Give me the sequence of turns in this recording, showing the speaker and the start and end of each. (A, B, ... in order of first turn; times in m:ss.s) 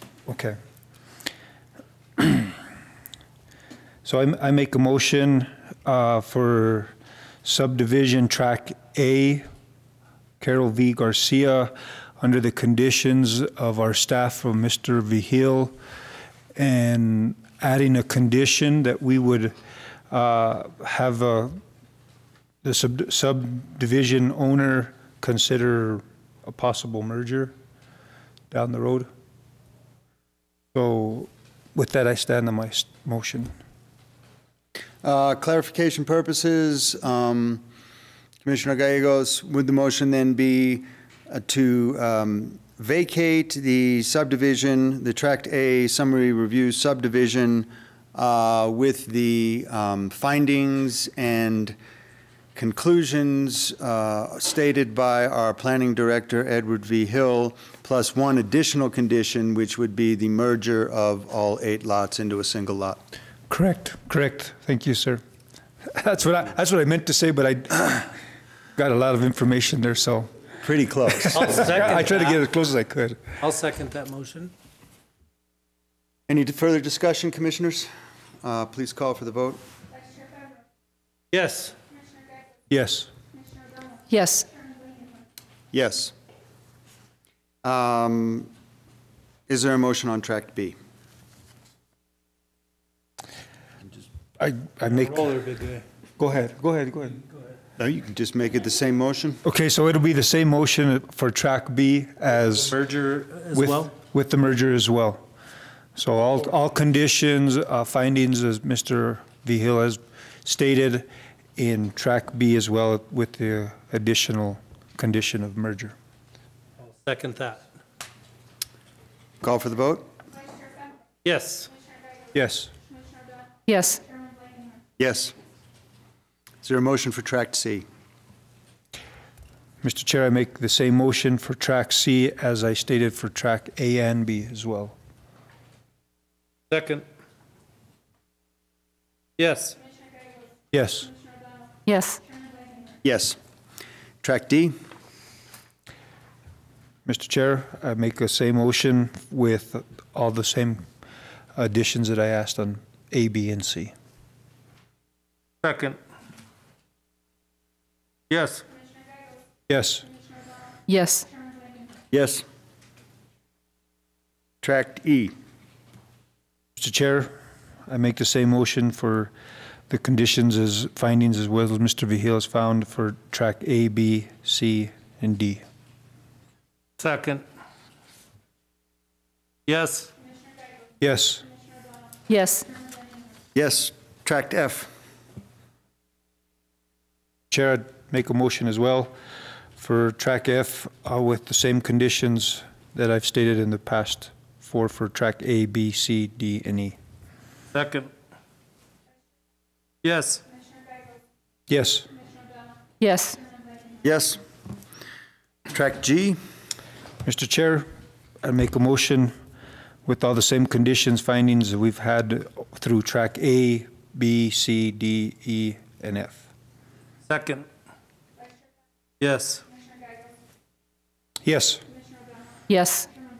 0:00.3-0:00.6 A
0:02.2-0:02.5 A
0:04.0-0:06.9 A
0:07.4-0:09.4 A
0:10.4-0:15.7 A
0:16.5-0:19.5 A
0:20.1-0:21.6 A
0:22.6-0:27.5 A
0:28.5-0:29.1 A
0:30.7-0:33.5 A
0:35.0-0:37.6 B
0:38.4-0:51.8 B
0:52.6-1:03.0 B
1:03.5-1:05.2 A
1:05.9-1:08.2 A
1:08.8-1:10.3 A
1:10.6-1:11.9 B
1:11.1-1:13.4 A
1:11.4-1:12.4 C
1:13.4-1:14.5 C
1:16.3-1:17.9 B
1:18.4-1:19.6 B
1:21.3-1:21.8 C
1:22.7-1:23.1 A
1:24.1-1:24.5 D
1:25.7-1:26.1 B
1:27.6-1:28.5 B
1:29.5-1:30.8 B
1:34.4-1:35.4 A
1:35.0-1:35.8 C
1:36.2-1:37.2 A
1:37.8-1:39.4 B
1:39.4-1:42.8 A
1:42.7-1:43.9 C
1:43.5-1:45.2 A
1:46.0-1:51.1 A
1:51.6-1:56.0 A
1:56.9-1:57.6 C
1:59.4-2:00.0 B
2:01.2-2:01.7 C
2:02.3-2:02.7 A
2:03.7-2:04.0 D
2:05.0-2:05.4 B
2:06.6-2:07.8 B
2:09.8-2:14.9 A
2:16.7-2:17.0 C
2:19.4-2:19.8 C
2:20.7-2:21.1 A
2:21.8-2:22.2 D
2:23.0-2:23.4 B
2:24.2-2:24.8 B
2:27.0-2:30.8 A
2:31.5-2:33.9 A
2:35.6-2:36.0 C
2:38.3-2:38.6 C
2:39.7-2:40.1 A
2:40.9-2:41.3 D
2:42.1-2:42.4 B
2:44.6-2:45.3 B
2:46.8-2:47.3 A
2:47.9-2:49.3 A
2:49.9-2:55.6 A
2:57.0-2:57.4 C
2:59.7-3:00.1 C
3:01.0-3:01.5 A
3:02.3-3:02.7 D
3:03.5-3:04.9 B
3:07.5-3:09.1 A
3:09.8-3:17.0 A
3:17.7-3:18.1 C
3:20.0-3:20.4 C
3:21.7-3:22.1 A
3:23.0-3:23.4 D
3:24.0-3:24.4 B
3:25.7-3:26.4 B
3:27.2-3:27.9 A
3:28.4-3:29.3 A
3:30.0-3:36.4 A
3:37.3-3:37.7 C
3:39.2-3:39.6 C
3:41.4-3:41.8 A
3:42.7-3:43.1 D